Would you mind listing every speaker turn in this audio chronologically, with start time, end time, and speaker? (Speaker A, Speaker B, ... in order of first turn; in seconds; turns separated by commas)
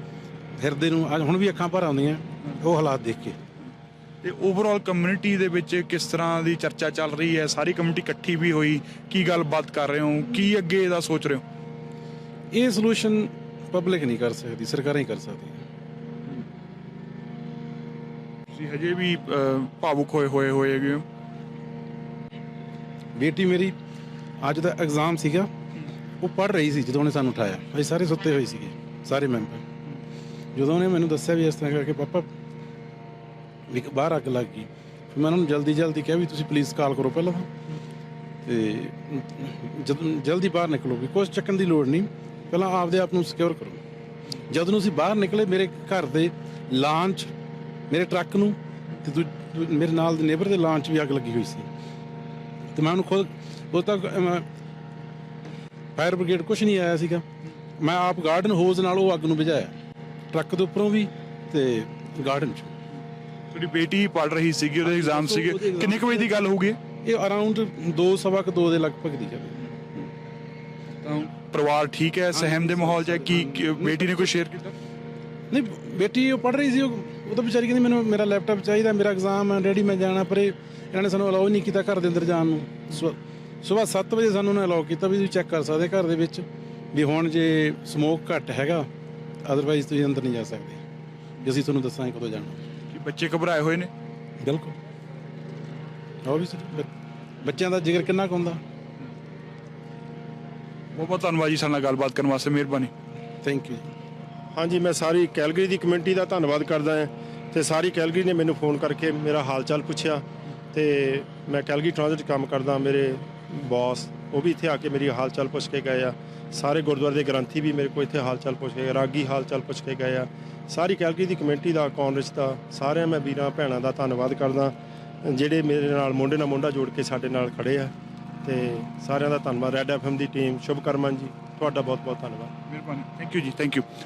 Speaker A: 0.6-3.4, Speaker B: 4.2-11.4, Speaker A: 12.5-15.6, Speaker B: 18.5-21.0, Speaker A: 23.1-23.7, Speaker A: 24.4-25.5, Speaker A: 26.2-29.6, Speaker A: 30.5-32.3, Speaker A: 33.7-37.5, Speaker A: 38.4-43.8, Speaker A: 44.5-47.3, Speaker A: 47.9-51.7, Speaker A: 52.7-54.5, Speaker A: 56.0-57.2, Speaker A: 57.8-59.7, Speaker A: 60.3-62.7, Speaker B: 63.5-66.8, Speaker A: 64.8-66.4, Speaker A: 67.0-70.1, Speaker B: 71.0-74.7, Speaker A: 72.3-74.3, Speaker A: 75.5-88.9, Speaker A: 89.4-90.8, Speaker A: 91.4-92.6, Speaker B: 92.9-93.9, Speaker A: 94.4-94.8, Speaker A: 96.2-96.9, Speaker A: 97.4-98.6, Speaker B: 100.9-102.9, Speaker A: 103.4-103.9, Speaker C: 104.5-127.9, Speaker C: 128.4-132.5, Speaker B: 132.7-133.8